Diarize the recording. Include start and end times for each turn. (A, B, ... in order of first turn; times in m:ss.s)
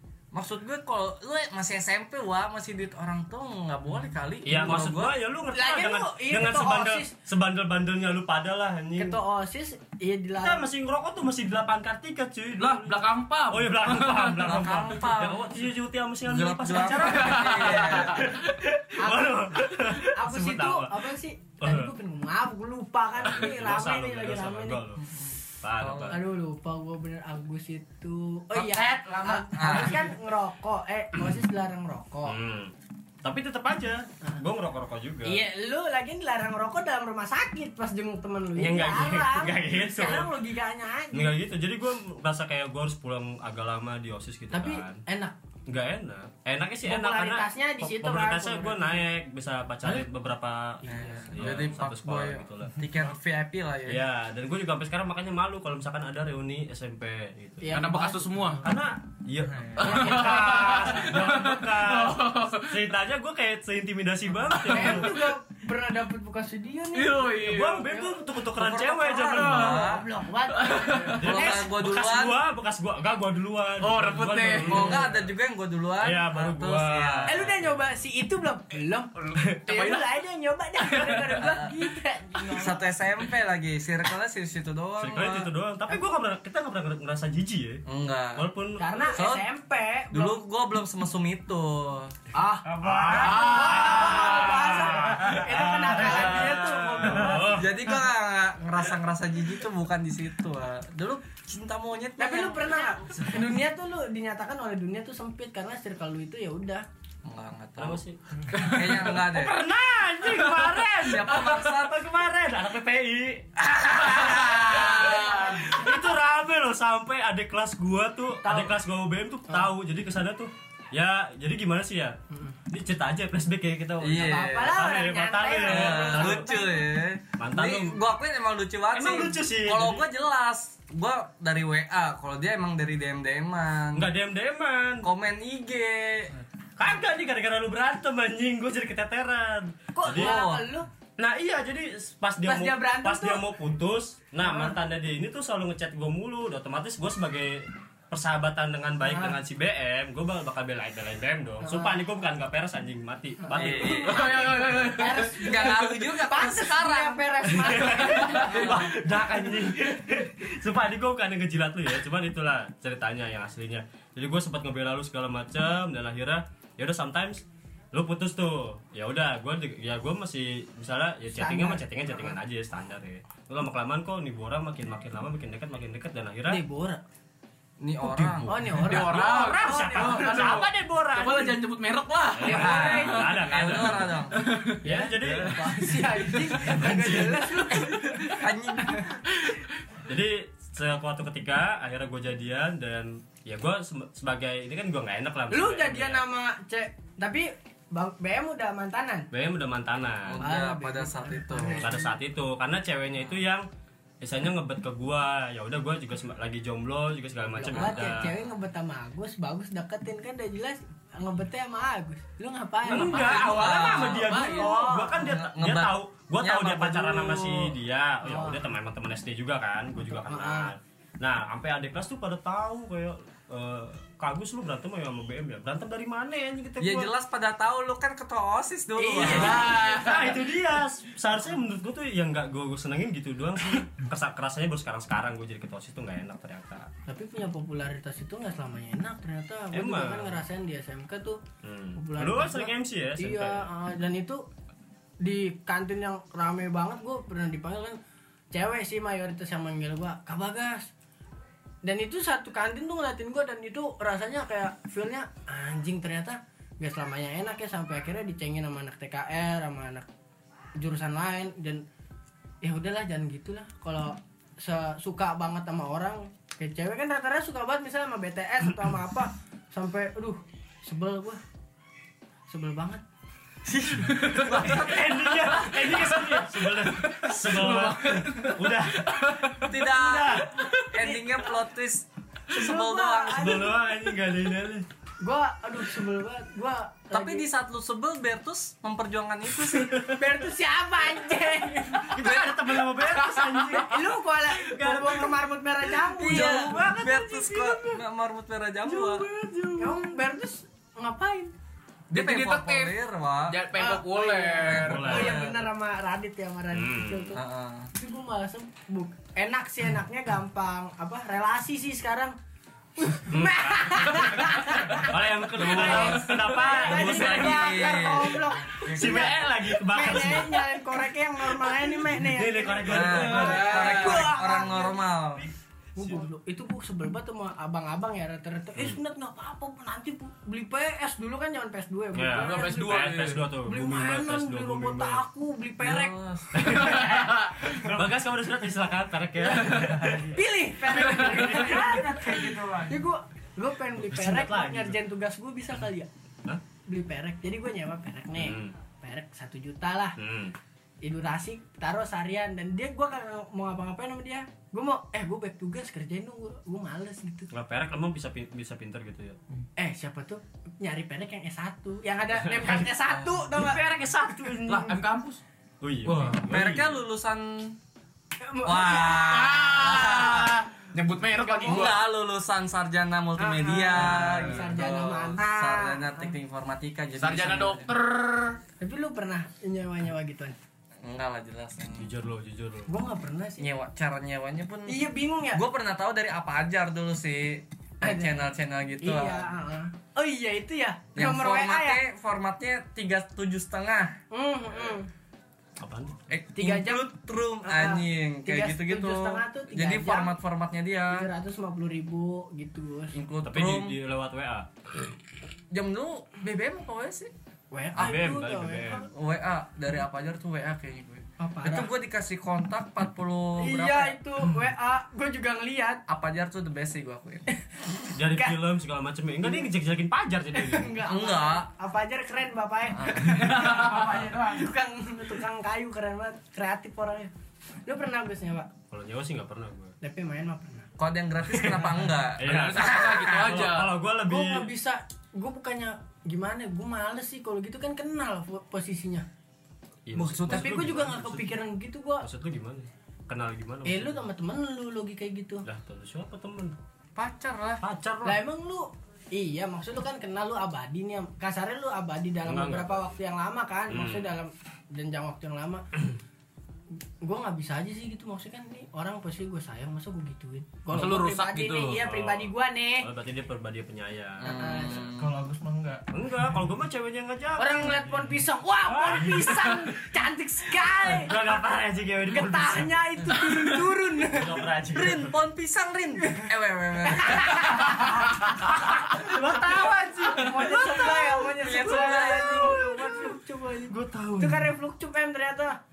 0:00.3-0:05.2 A
0:04.4-0:09.2 B
0:05.5-0:07.1 C
0:08.9-0:10.6 C
0:10.4-0:21.9 B
0:12.6-0:14.7 D
0:14.4-0:15.4 A
0:16.2-0:18.3 A
0:16.8-0:18.3 D
0:19.0-0:24.8 C
0:23.2-0:25.0 B
0:25.1-0:26.2 A
0:25.6-0:26.2 B
0:26.1-0:32.4 C
0:28.5-0:30.1 A
0:29.3-0:29.7 E
0:32.2-0:32.7 B
0:33.2-0:35.4 B
0:35.2-0:41.3 C
0:38.6-0:40.3 B
0:41.1-0:45.0 B
0:44.5-0:45.3 C
0:45.7-0:52.8 B
0:46.8-0:49.0 C
0:50.8-0:54.0 A
0:50.9-0:51.2 C
0:53.9-0:57.8 B
0:57.6-0:58.6 C
0:57.7-0:58.6 D
0:58.6-1:05.2 B
0:59.8-1:02.8 D
0:59.8-1:01.1 C
1:04.7-1:08.2 C
1:04.7-1:05.0 D
1:06.9-1:07.8 D
1:07.4-1:09.8 B
1:08.5-1:10.0 A
1:09.3-1:09.8 D
1:09.4-1:11.7 C
1:10.6-1:11.1 D
1:11.0-1:15.3 B
1:11.2-1:12.4 A
1:13.8-1:15.0 D
1:14.6-1:17.4 A
1:16.0-1:17.8 B
1:17.3-1:19.1 C
1:19.2-1:20.0 D
1:19.6-1:22.8 C
1:20.9-1:21.4 B
1:21.4-1:21.7 A
1:22.6-1:25.5 A
1:25.0-1:27.8 B
1:27.8-1:28.5 A
1:28.3-1:29.2 B
1:28.8-1:30.4 C
1:29.1-1:29.4 A
1:30.1-1:32.1 A
1:32.3-1:37.6 C
1:32.6-1:37.8 B
1:33.1-1:34.2 D
1:37.3-1:42.8 A
1:42.2-1:46.8 C
1:47.2-1:48.0 A
1:47.8-2:02.2 B
1:48.5-1:49.6 A
1:51.0-1:52.0 A
1:54.2-1:55.0 A
1:54.5-1:55.6 D
1:54.9-1:55.9 C
1:58.4-1:58.8 C
2:02.3-2:02.6 C
2:02.7-2:06.5 B
2:04.0-2:04.8 A
2:04.1-2:06.9 C
2:05.6-2:14.1 A
2:07.4-2:08.0 B
2:08.9-2:10.0 B
2:13.9-2:15.1 B
2:15.0-2:16.3 A
2:16.8-2:20.4 B
2:20.0-2:20.9 C
2:20.1-2:20.7 A
2:21.2-2:34.7 B
2:22.4-2:23.4 C
2:24.4-2:24.7 C
2:29.1-2:29.4 C
2:31.6-2:32.0 C
2:33.5-2:34.4 A
2:33.9-2:36.0 D
2:34.7-2:39.0 C
2:35.2-2:37.8 A
2:37.5-2:56.6 B
2:51.3-2:52.3 C
2:56.5-2:57.0 C
2:57.8-2:58.5 A
2:58.0-3:00.5 B
2:58.4-3:01.6 C
2:58.8-3:06.4 D
3:02.3-3:04.2 B
3:02.4-3:03.3 C
3:02.5-3:04.4 A
3:04.8-3:05.7 B
3:04.8-3:09.0 C
3:06.5-3:07.7 B
3:07.8-3:09.1 A
3:10.1-3:16.2 B
3:15.5-3:19.3 C
3:19.3-3:20.4 B
3:20.2-3:22.0 A
3:20.4-3:22.1 C
3:21.8-3:23.6 B
3:24.2-3:28.3 B
3:27.6-3:35.2 C
3:32.8-3:47.1 B
3:32.9-3:37.7 A
3:38.2-3:38.7 C
3:40.0-3:40.7 C
3:46.8-3:49.7 A
3:49.0-3:50.1 C
3:49.2-3:56.9 B
3:49.2-3:50.4 D
3:57.1-4:01.4 C
3:59.7-4:00.4 B
4:01.6-4:03.7 B
4:02.0-4:04.4 C
4:05.2-4:08.0 C
4:08.5-4:10.9 C
4:11.8-4:20.1 C
4:20.8-4:21.8 C
4:22.6-4:31.4 C
4:32.5-4:33.0 C
4:33.9-4:39.6 D
4:34.2-4:40.5 B
4:34.2-4:35.1 A
4:39.6-4:43.6 A
4:41.0-4:41.4 C
4:42.5-4:43.9 C
4:43.3-4:44.8 B
4:45.2-4:47.5 C
4:47.1-4:50.0 A
4:49.7-4:50.2 B
4:50.0-4:52.4 C
4:51.9-4:55.4 B
4:53.2-4:53.4 D
4:53.7-4:57.5 C
4:56.2-4:57.7 B
4:56.2-4:59.3 A
4:59.1-4:59.8 B
4:59.8-5:01.5 C
5:02.1-5:03.6 A
5:02.1-5:03.0 D
5:03.5-5:05.2 D
5:03.7-5:07.4 C
5:04.6-5:05.4 B
5:04.7-5:05.7 A
5:06.7-5:07.4 B
5:07.3-5:07.9 A
5:07.9-5:12.3 C
5:13.0-5:25.0 C
5:13.3-5:18.1 B
5:15.8-5:19.1 A
5:18.9-5:20.8 B
5:21.8-5:24.3 B
5:22.8-5:25.5 A
5:26.0-5:33.1 C
5:32.1-5:35.2 B
5:32.4-5:33.4 D
5:33.6-5:36.1 C
5:35.8-5:36.9 A
5:36.5-5:42.3 B
5:36.8-5:37.5 D
5:40.2-5:46.1 C
5:41.4-5:43.0 E
5:44.0-5:45.0 B
5:46.9-5:50.2 C
5:48.4-5:48.7 B
5:50.2-5:50.6 B
5:51.0-5:57.5 C
5:57.5-5:59.4 B
5:59.8-6:04.6 C
6:02.4-6:02.9 B
6:03.5-6:05.0 B
6:04.6-6:05.4 D
6:05.8-6:07.0 B
6:06.0-6:06.4 D
6:06.5-6:07.8 A
6:08.4-6:09.5 C
6:08.6-6:10.6 A
6:08.9-6:12.0 D
6:11.4-6:11.9 C
6:11.6-6:17.9 A
6:13.4-6:16.3 C
6:14.2-6:14.7 D
6:17.2-6:18.6 D
6:18.8-6:20.5 C
6:21.0-6:22.1 A
6:21.9-6:22.9 B
6:22.9-6:23.7 C
6:23.6-6:29.5 A
6:24.9-6:25.6 C
6:28.0-6:32.0 C
6:31.1-6:34.1 A
6:34.3-6:35.1 C
6:35.8-6:36.2 B
6:36.3-6:41.3 A
6:36.6-6:37.1 C
6:37.6-6:40.4 C
6:41.1-6:43.2 C
6:43.1-6:44.0 A
6:43.4-6:44.7 B
6:45.7-6:47.3 A
6:47.7-6:49.1 C
6:48.0-6:49.1 B
6:49.1-6:54.2 A
6:51.4-6:51.9 C
6:53.6-6:56.0 C
6:56.1-6:57.4 A
6:58.1-7:01.0 B
7:00.5-7:07.3 C
7:01.0-7:01.7 A
7:03.0-7:03.4 A
7:03.4-7:04.6 D
7:07.8-7:08.7 C
7:08.9-7:09.9 B
7:10.0-7:10.9 C
7:11.0-7:13.3 A
7:11.6-7:11.8 B
7:12.4-7:14.7 B
7:12.4-7:13.9 D
7:14.2-7:19.2 C
7:20.0-7:21.5 B
7:20.1-7:20.9 A
7:20.5-7:22.2 C
7:22.2-7:24.2 B
7:23.8-7:25.6 C
7:25.6-7:26.8 B
7:27.2-7:27.8 A
7:27.8-7:28.4 B
7:28.2-7:35.8 C
7:32.4-7:33.1 B
7:33.9-7:34.3 B
7:37.2-7:43.1 C
7:40.9-7:42.0 D
7:42.0-7:45.0 B
7:44.4-7:45.3 A
7:44.4-7:45.0 C
7:45.0-7:46.0 E
7:46.1-7:48.2 B
7:47.6-7:51.4 C
7:48.8-7:49.9 B
7:51.0-7:53.7 B
7:52.3-7:54.6 C
7:54.3-7:55.3 B
7:54.9-7:57.9 A
7:57.0-8:05.8 C
7:59.2-8:03.4 B
8:01.4-8:02.8 A
8:03.9-8:04.7 B